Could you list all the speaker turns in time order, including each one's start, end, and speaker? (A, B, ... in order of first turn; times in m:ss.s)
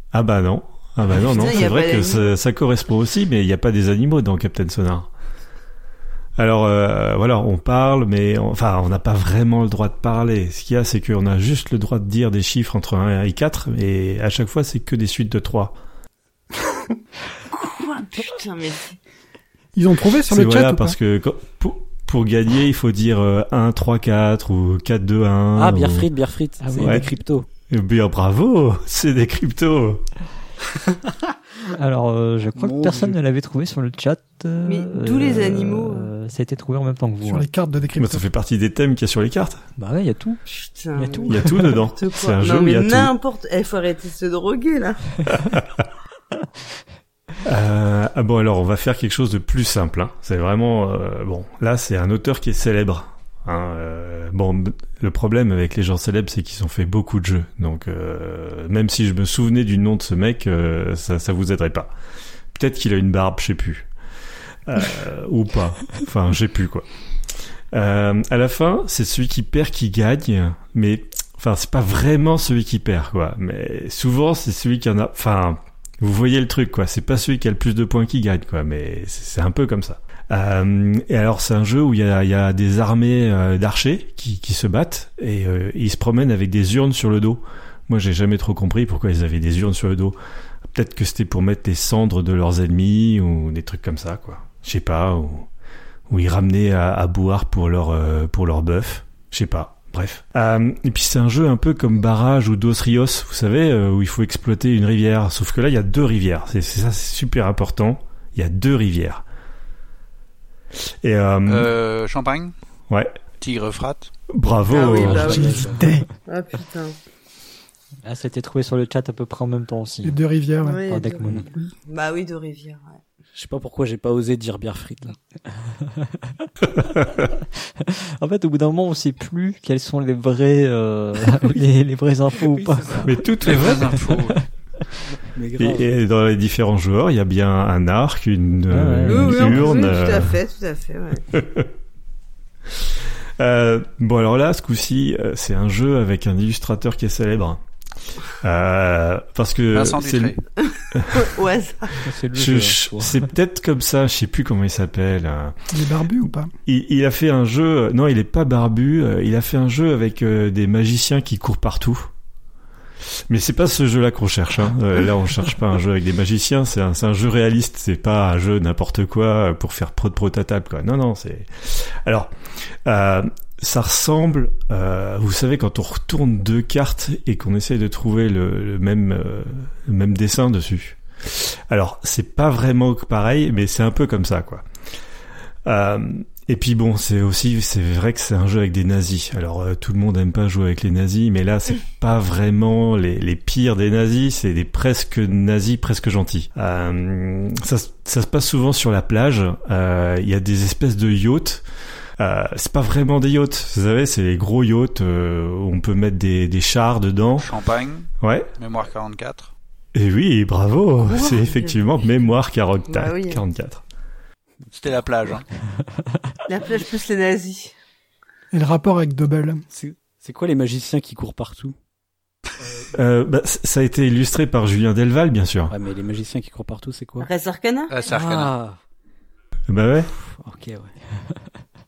0:00.1-0:05.1 A
0:01.2-0:02.4 B
0:01.2-0:01.5 C
0:06.4-0:15.8 A
0:17.5-0:19.0 B
0:19.7-0:21.0 D
0:20.3-0:26.1 A
0:25.6-0:27.5 C
0:26.6-0:27.0 E
0:26.8-0:27.1 A
0:27.7-0:30.0 A
0:31.8-0:37.5 E
0:32.6-0:33.2 C
0:34.6-0:36.1 B
0:37.2-0:38.2 D
0:38.0-0:39.6 A
0:39.8-0:40.4 E
0:40.5-0:45.3 B
0:41.0-0:41.8 E
0:41.3-0:43.1 A
0:47.4-1:01.9 A
1:02.5-1:03.9 A
1:04.7-1:06.8 A
1:07.7-1:30.2 A
1:30.7-1:35.5 A
1:36.1-1:49.2 A
1:51.0-1:51.7 A
1:51.5-1:52.6 F
1:52.9-1:53.2 A
1:53.4-1:54.1 F
1:54.3-1:55.6 A
1:54.7-1:55.7 B
1:54.7-1:55.8 C
1:55.7-1:56.1 D
1:56.3-1:57.0 B
1:58.0-2:00.2 E
2:00.0-2:01.7 D
2:00.6-2:03.0 B
2:00.8-2:01.5 E
2:03.4-2:05.2 C
2:05.8-2:06.5 E
2:07.8-2:13.1 E
2:12.4-2:13.1 C
2:13.0-2:14.0 A
2:13.4-2:14.4 F
2:15.3-2:15.9 C
2:15.6-2:20.4 A
2:18.7-2:19.7 E
2:19.1-2:21.3 B
2:21.3-2:21.6 A
2:23.4-2:27.6 A
2:28.4-2:30.4 A
2:29.7-2:30.4 F
2:30.6-2:32.1 B
2:30.9-2:31.3 A
2:32.1-2:33.2 E
2:32.4-2:35.6 A
2:35.7-2:36.5 D
2:36.7-2:42.1 A
2:43.3-2:52.3 A
2:52.9-3:04.6 A
3:05.7-3:21.6 A
3:22.2-3:27.5 A
3:27.4-3:29.5 F
3:28.2-3:28.5 A
3:30.0-3:33.8 A
3:31.0-3:32.1 B
3:32.9-3:33.4 B
3:34.7-3:35.4 F
3:36.5-3:37.7 B
3:38.5-3:39.6 D
3:39.7-3:41.8 C
3:42.9-3:45.7 A
3:45.7-3:47.3 C
3:47.2-3:47.9 B
3:47.9-3:48.5 F
3:48.0-3:48.8 C
3:49.7-3:50.1 A
3:50.3-3:50.9 C